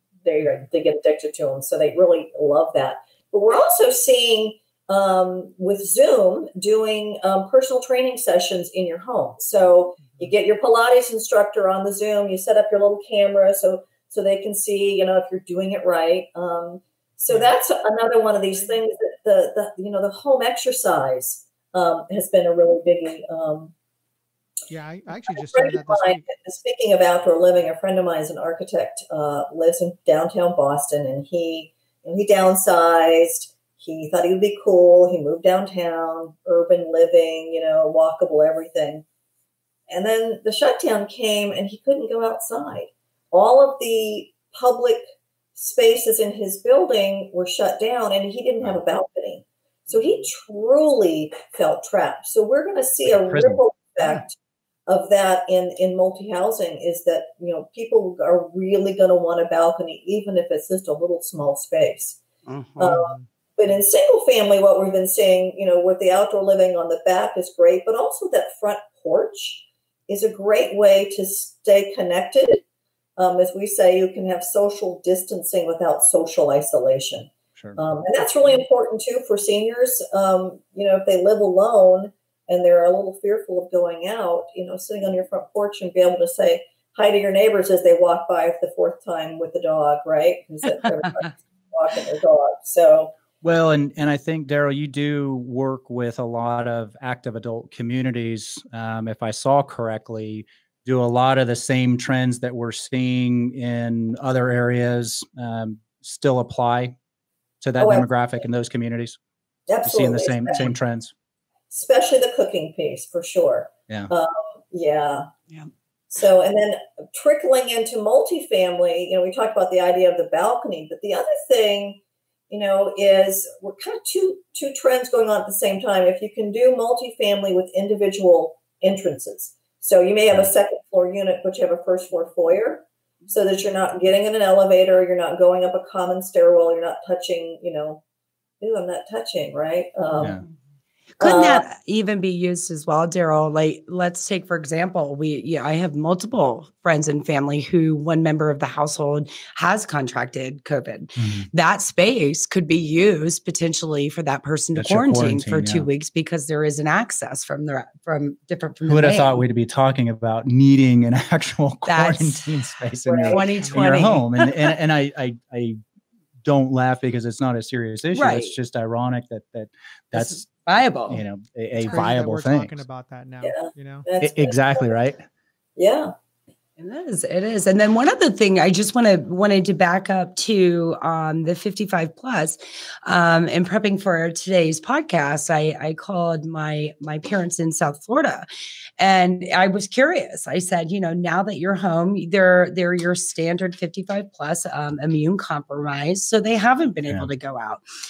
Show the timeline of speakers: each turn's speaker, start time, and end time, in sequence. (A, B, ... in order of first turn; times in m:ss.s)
0:00.2-0:23.7 A
0:24.7-0:26.3 B
0:25.3-0:39.0 A
0:39.9-0:45.0 A
0:45.6-0:54.3 A
0:53.1-0:53.6 C
0:54.9-1:02.2 A
1:02.4-1:03.0 D
1:02.8-1:12.6 A
1:02.8-1:03.3 B
1:13.2-1:33.1 A
1:33.4-1:46.9 C
1:47.6-1:49.2 C
1:47.8-1:48.1 A
1:49.7-1:50.7 A
1:49.8-1:51.1 C
1:51.7-1:55.3 A
1:56.1-2:18.0 A
2:18.6-2:20.4 A
2:21.2-2:39.4 D
2:21.2-2:21.6 A
2:31.2-2:31.5 C
2:34.8-2:35.9 C
2:38.9-2:45.8 C
2:41.8-2:42.5 D
2:43.0-2:43.4 A
2:43.2-2:44.8 D
2:43.6-2:43.9 B
2:46.4-2:50.5 C
2:48.1-2:48.5 D
2:50.1-2:51.2 D
2:51.1-2:52.8 C
2:51.8-2:54.0 B
2:53.4-2:54.9 A
2:54.2-2:55.2 C
2:55.8-2:56.1 A
2:56.8-3:08.4 D
3:09.0-3:17.8 D